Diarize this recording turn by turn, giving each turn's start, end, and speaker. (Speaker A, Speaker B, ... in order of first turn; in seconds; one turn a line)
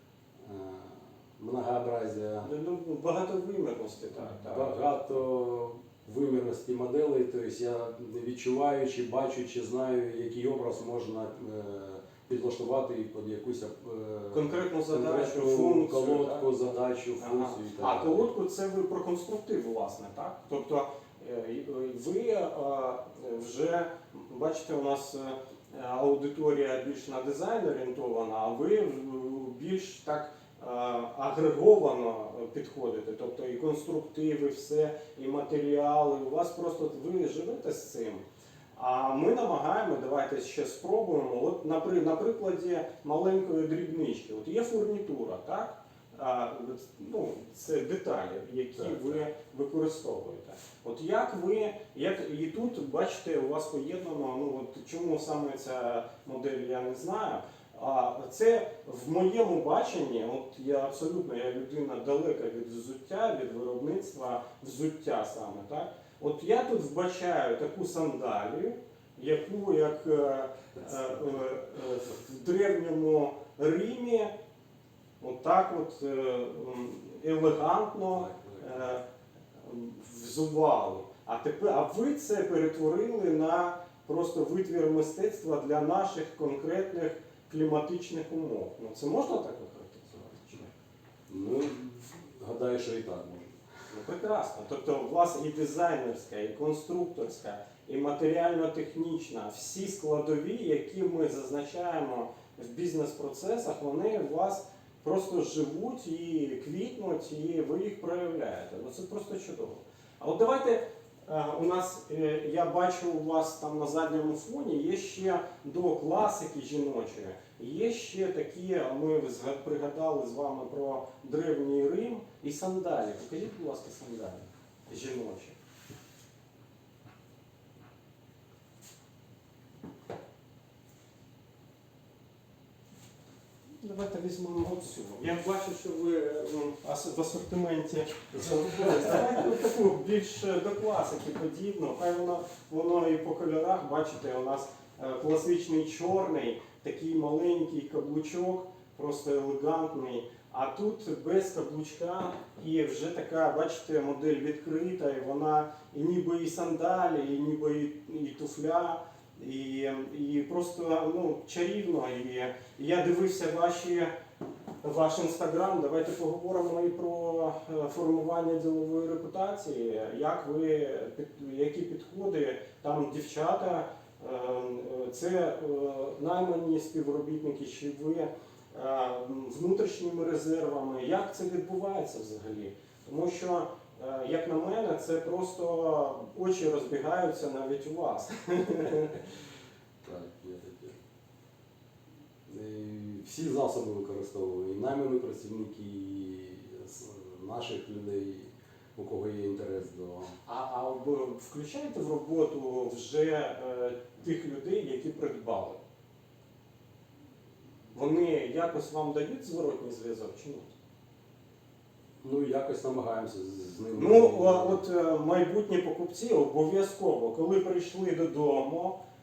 Speaker A: 0.4-2.5
Speaker B: 2.4-4.8
Speaker A: 4.2-18.3
Speaker B: 14.3-16.5
Speaker B: 17.2-38.2
Speaker B: 38.8-74.3
Speaker B: 75.2-79.0
Speaker A: 78.1-78.8
Speaker B: 79.6-90.7
Speaker A: 91.3-93.6
Speaker B: 93.9-125.5
Speaker B: 133.8-164.1
Speaker A: 138.7-139.1
Speaker B: 164.8-189.2
Speaker A: 190.0-191.0
Speaker A: 192.5-200.4
Speaker B: 200.5-205.8
Speaker B: 207.9-210.7
Speaker A: 212.2-214.8
Speaker B: 213.9-219.0